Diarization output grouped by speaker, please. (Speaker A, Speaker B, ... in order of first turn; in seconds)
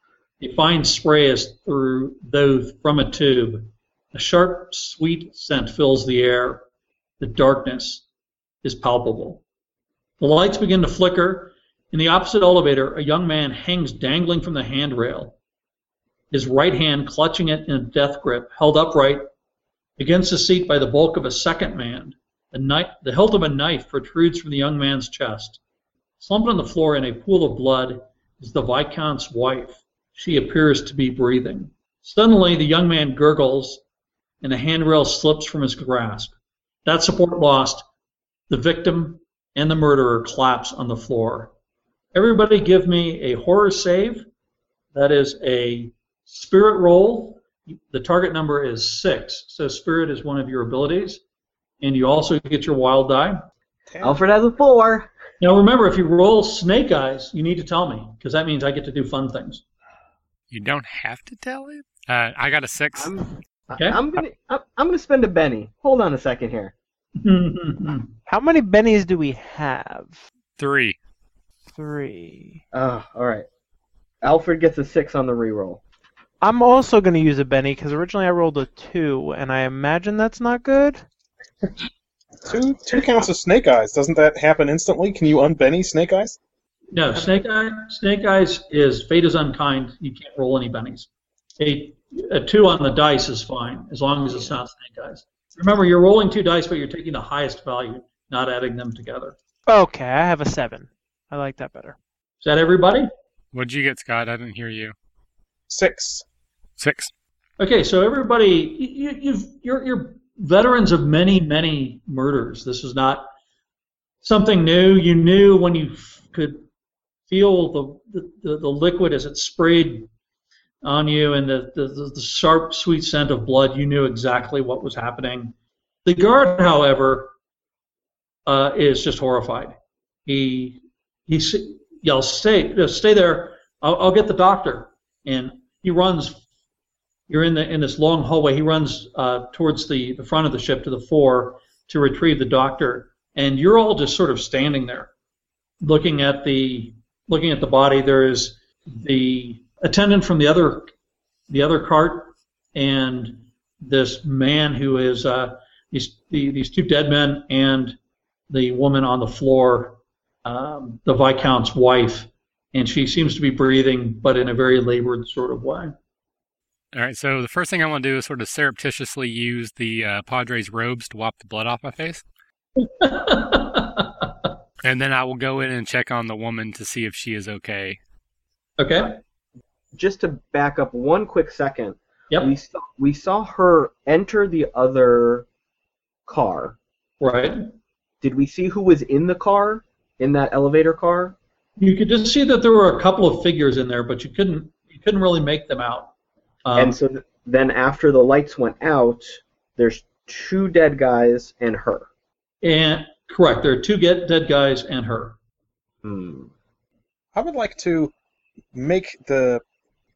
Speaker A: 0.4-6.6, 7.2-8.0, 8.6-9.4, 10.2-15.4, 16.3-19.3, 20.0-25.6, 26.2-33.8, 34.4-37.8, 38.5-41.5, 42.1-44.3, 44.9-51.2, 51.8-53.4, 55.4-59.6, 63.7-64.0, 67.2-68.1, 86.9-91.1, 91.6-99.3, 102.4-103.1, 107.6-113.3, 114.2-116.6, 117.3-120.1, 120.8-125.5, 126.0-127.3, 128.4-136.4, 137.3-145.1, 145.8-150.9, 151.5-157.9, 158.5-165.9, 172.8-174.2, 178.8-179.2, 187.2-187.7, 191.8-196.1, 196.6-197.0, 202.6-205.4
Speaker B: 53.9-54.2, 82.4-86.4, 105.7-106.2, 207.3-208.1, 208.7-209.6
Speaker C: 54.0-55.1, 63.0-66.7, 72.7-73.5, 74.2-75.8, 179.9-185.4, 186.3-186.8, 188.2-191.3, 196.8-202.1, 206.0-206.5
Speaker D: 60.5-63.2, 70.6-71.0, 103.5-104.9, 106.8-107.1, 166.9-172.2, 174.8-178.0
Speaker E: 68.3-70.2, 71.8-72.6, 76.4-81.0, 99.7-102.0